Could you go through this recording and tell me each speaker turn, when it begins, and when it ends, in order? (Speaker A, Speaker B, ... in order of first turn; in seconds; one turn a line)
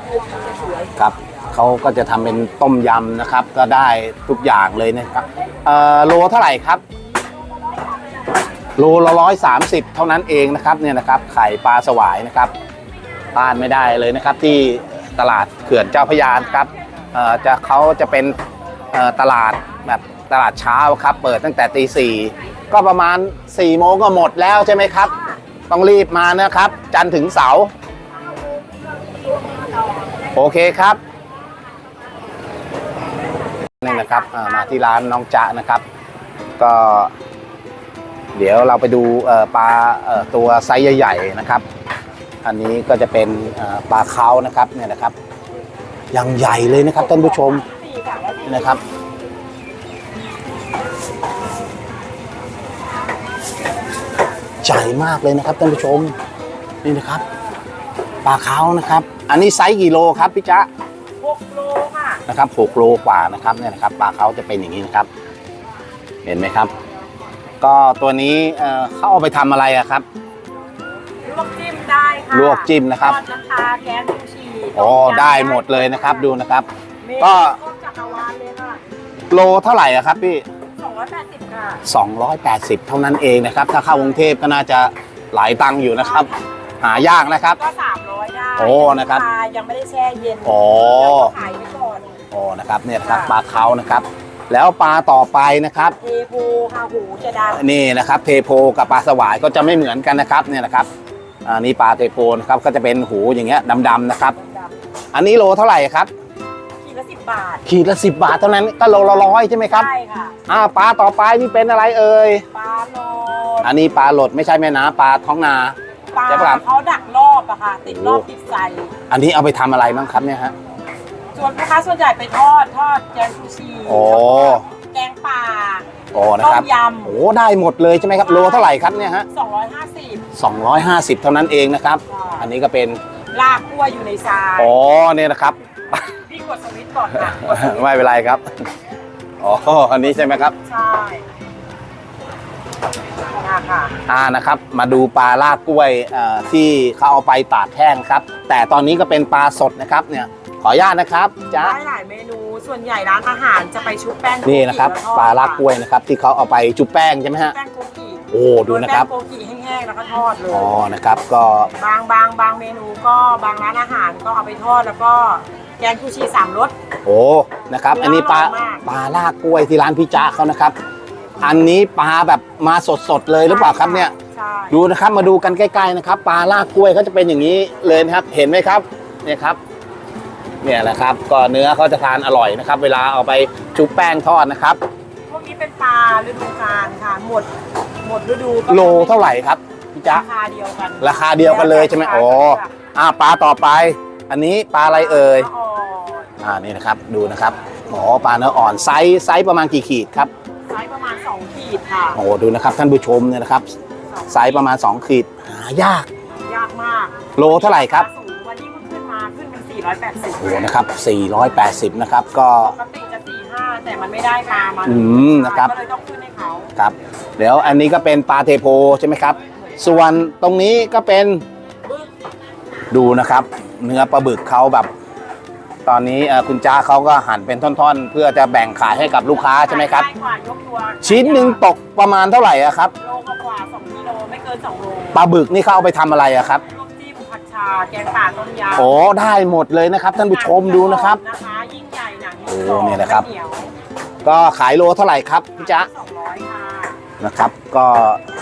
Speaker A: 0.9-6.8
Speaker A: 8.8-12.5
Speaker A: 13.3-18.4
Speaker A: 18.9-25.1
Speaker A: 25.7-27.7
Speaker A: 30.3-31.0
Speaker A: 33.8-35.8
Speaker B: 33.8-35.1
Speaker A: 36.6-37.1
Speaker A: 38.3-41.6
Speaker A: 42.4-45.1
Speaker A: 46.1-47.6
Speaker B: 47.0-48.8
Speaker A: 48.4-48.8
Speaker A: 54.6-56.1
Speaker A: 56.8-57.2
Speaker A: 58.2-60.7
Speaker B: 61.2-62.2
Speaker A: 62.3-65.1
Speaker A: 66.2-66.7
Speaker A: 67.6-70.0
Speaker B: 71.2-76.3
Speaker A: 72.3-73.2
Speaker A: 74.7-76.7
Speaker B: 77.0-78.8
Speaker A: 77.2-77.6
Speaker A: 79.3-80.4
Speaker B: 80.8-81.8
Speaker A: 81.8-86.3
Speaker B: 85.9-86.3
Speaker A: 86.8-87.6
Speaker B: 86.9-92.0
Speaker A: 88.6-89.2
Speaker A: 90.4-91.3
Speaker A: 92.3-96.0
Speaker B: 93.0-93.3
Speaker B: 96.0-97.6
Speaker A: 97.5-100.9
Speaker A: 101.4-104.4
Speaker B: 104.4-104.7
Speaker A: 105.1-106.1
Speaker B: 106.8-107.6
Speaker A: 107.7-109.9
Speaker B: 109.7-110.3
Speaker A: 110.5-112.4
Speaker B: 112.5-113.7
Speaker A: 113.6-115.8
Speaker B: 116.1-118.9
Speaker A: 116.3-116.6
Speaker A: 117.8-118.2
Speaker A: 119.1-120.5
Speaker B: 121.3-125.9
Speaker A: 123.9-124.6
Speaker A: 126.1-129.2
Speaker B: 126.4-127.1
Speaker B: 128.2-128.7
Speaker B: 129.3-130.2
Speaker A: 130.3-133.0
Speaker B: 132.1-132.5
Speaker B: 133.3-134.7
Speaker A: 134.6-136.0
Speaker B: 136.2-137.9
Speaker A: 137.2-138.6
Speaker A: 139.4-140.5
Speaker B: 140.6-141.2
Speaker B: 143.3-143.9
Speaker A: 144.1-151.8
Speaker B: 151.6-155.7
Speaker A: 154.4-157.5
Speaker B: 157.5-160.8
Speaker A: 158.3-159.1
Speaker A: 160.5-161.7
Speaker B: 161.8-166.7
Speaker A: 167.1-170.7
Speaker B: 167.9-168.8
Speaker A: 171.4-174.1
Speaker B: 173.4-174.8
Speaker A: 174.7-179.6
Speaker A: 180.6-184.8
Speaker B: 185.3-187.5
Speaker B: 188.0-189.3
Speaker A: 188.7-190.2
Speaker B: 190.1-192.7
Speaker A: 191.0-195.5
Speaker B: 194.8-196.3
Speaker A: 196.4-200.3
Speaker B: 200.7-202.2
Speaker A: 202.1-203.7
Speaker B: 204.1-204.7
Speaker A: 204.3-206.1
Speaker B: 206.4-210.7
Speaker A: 207.3-208.1
Speaker A: 210.4-212.8
Speaker B: 212.6-216.7
Speaker A: 214.8-215.7
Speaker A: 216.8-221.4
Speaker B: 221.8-222.1
Speaker A: 222.9-224.9
Speaker A: 225.8-230.1
Speaker B: 229.5-231.6
Speaker A: 231.0-232.9
Speaker B: 233.0-235.2
Speaker A: 235.1-236.6
Speaker B: 236.7-238.9
Speaker A: 238.7-241.2
Speaker B: 240.1-243.7
Speaker A: 242.5-243.3
Speaker A: 244.2-245.9
Speaker B: 245.6-247.0
Speaker A: 247.2-248.2